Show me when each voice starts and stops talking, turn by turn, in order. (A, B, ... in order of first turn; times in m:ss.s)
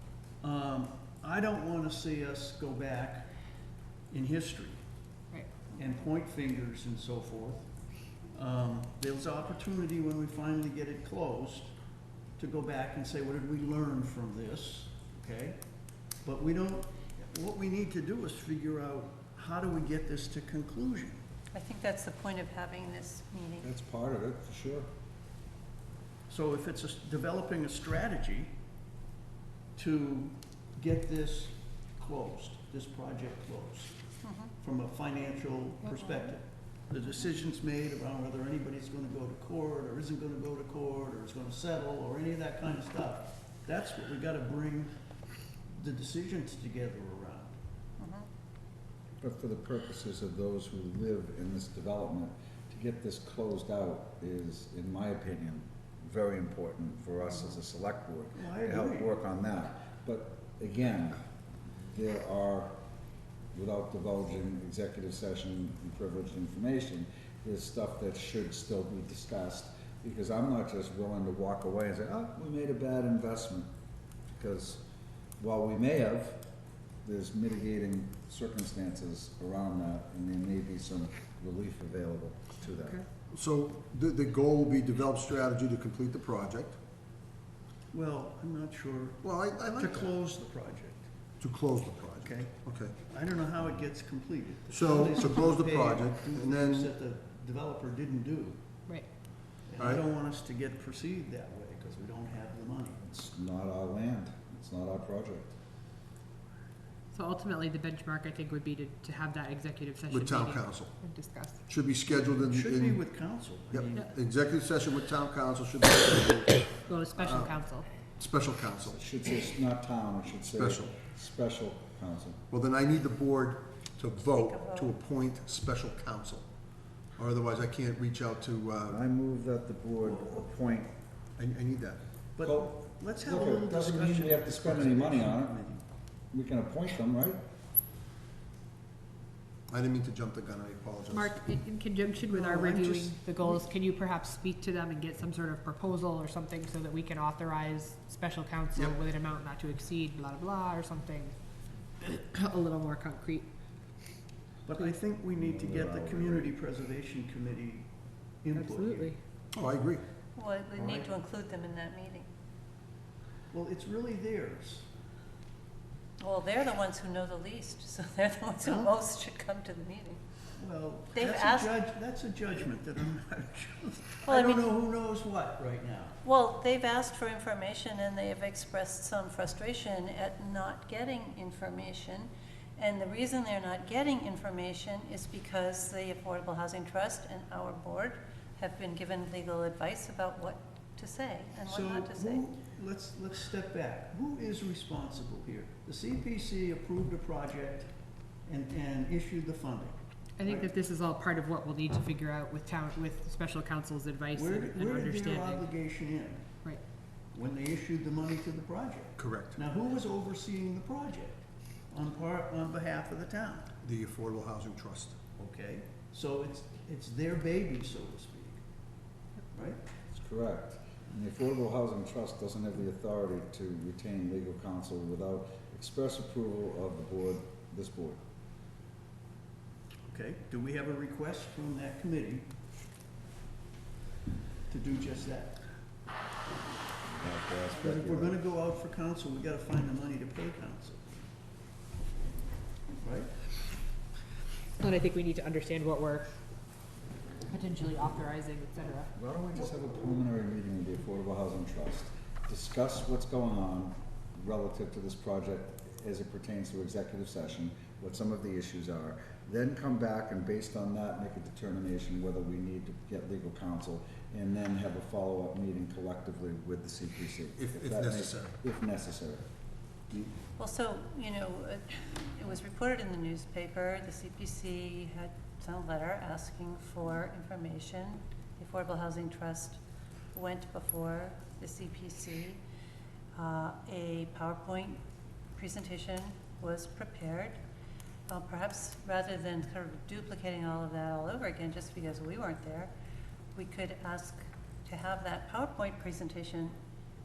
0:00.4-0:03.3 A
0:04.1-0:04.8 A
0:05.7-0:07.7 A
0:08.3-0:11.7 A
0:12.4-0:15.6 A
0:16.2-0:21.2 A
0:21.5-0:23.7 B
0:23.6-0:24.9 C
0:26.3-0:28.5 A
0:29.8-0:34.0 A
0:34.2-0:34.5 B
0:34.6-0:44.9 A
0:35.9-0:36.3 B
0:45.7-0:47.6 A
0:48.0-0:48.2 B
0:49.2-1:01.2 C
0:58.3-0:59.1 A
1:01.8-1:02.8 C
1:03.5-1:13.7 C
1:14.2-1:14.8 C
1:15.4-1:16.4 C
1:17.0-1:23.0 C
1:23.3-1:26.8 D
1:27.9-1:31.1 A
1:29.2-1:30.1 D
1:31.4-1:33.0 D
1:32.2-1:38.6 A
1:34.7-1:36.9 D
1:39.6-1:43.0 A
1:43.0-1:45.5 C
1:47.1-1:51.6 E
1:50.1-1:51.0 D
1:51.6-1:53.0 D
1:52.4-1:54.0 A
1:53.7-1:59.0 D
1:56.9-1:57.8 E
1:58.8-2:02.4 C
2:00.5-2:00.9 D
2:02.5-2:06.5 D
2:04.2-2:04.9 B
2:07.1-2:09.0 D
2:08.9-2:10.9 C
2:10.0-2:10.5 A
2:11.4-2:12.0 D
2:12.4-2:15.8 A
2:12.4-2:15.6 C
2:16.3-2:17.4 C
2:19.7-2:21.4 D
2:21.1-2:31.4 E
2:22.3-2:23.1 A
2:32.0-2:33.5 E
2:34.6-2:37.9 A
2:35.4-2:36.5 C
2:38.4-2:39.1 A
2:38.5-2:39.2 E
2:39.5-2:40.0 D
2:40.4-2:42.3 B
2:40.7-2:41.1 A
2:43.5-2:44.9 A
2:46.2-2:50.2 B
2:48.6-2:48.9 A
2:50.6-2:56.2 A
2:51.1-2:51.8 B
2:54.2-2:54.7 B
2:56.2-3:12.5 B
3:11.6-3:17.9 A
3:18.4-3:20.7 A
3:20.4-3:25.6 E
3:24.3-3:26.6 A
3:27.3-3:33.7 A
3:29.2-3:29.6 D
3:33.8-3:35.2 D
3:35.4-3:38.6 A
3:39.5-3:39.8 A
3:40.1-3:48.2 C
3:50.1-3:52.5 A
3:54.7-3:55.6 A
3:57.1-3:58.4 C
3:57.8-4:01.2 A
4:03.0-4:03.3 A
4:04.8-4:06.3 E
4:07.5-4:09.1 E
4:09.1-4:29.4 C
4:27.6-4:28.6 D
4:30.6-4:39.8 B
4:40.3-4:42.6 B
4:43.4-4:45.0 B
4:45.6-4:47.6 B
4:48.3-4:52.9 B
4:53.6-4:56.8 B